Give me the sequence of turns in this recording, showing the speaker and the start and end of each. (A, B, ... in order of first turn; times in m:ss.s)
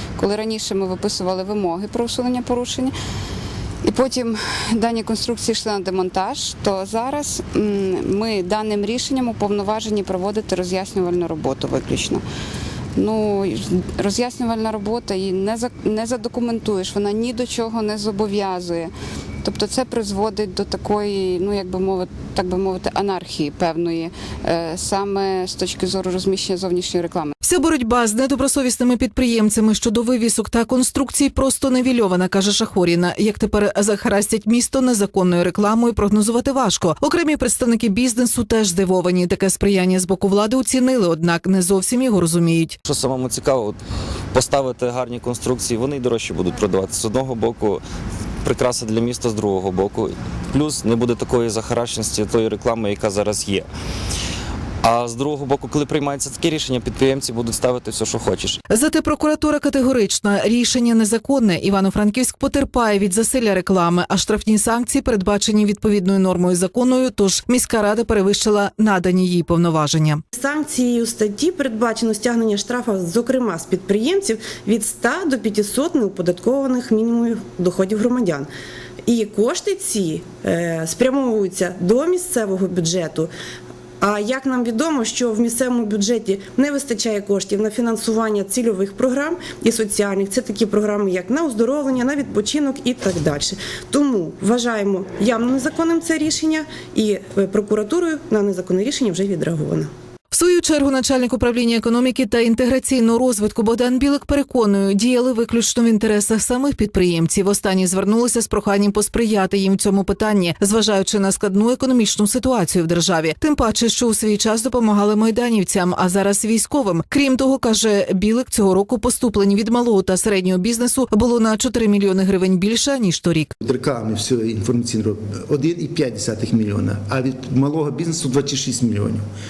0:00.2-0:03.0 A
0:03.8-0:12.2 A
0:13.0-0:18.9 A
0:19.4-0:27.4 A
0:27.4-0:42.8 B
0:42.8-0:43.8 C
0:44.3-0:47.8 C
0:48.4-0:53.7 C
0:54.8-0:58.6 C
0:58.7-1:10.2 B
1:10.3-1:18.5 D
1:19.1-1:23.3 D
1:24.0-1:39.9 D
1:40.3-2:03.5 B
2:03.6-2:09.2 E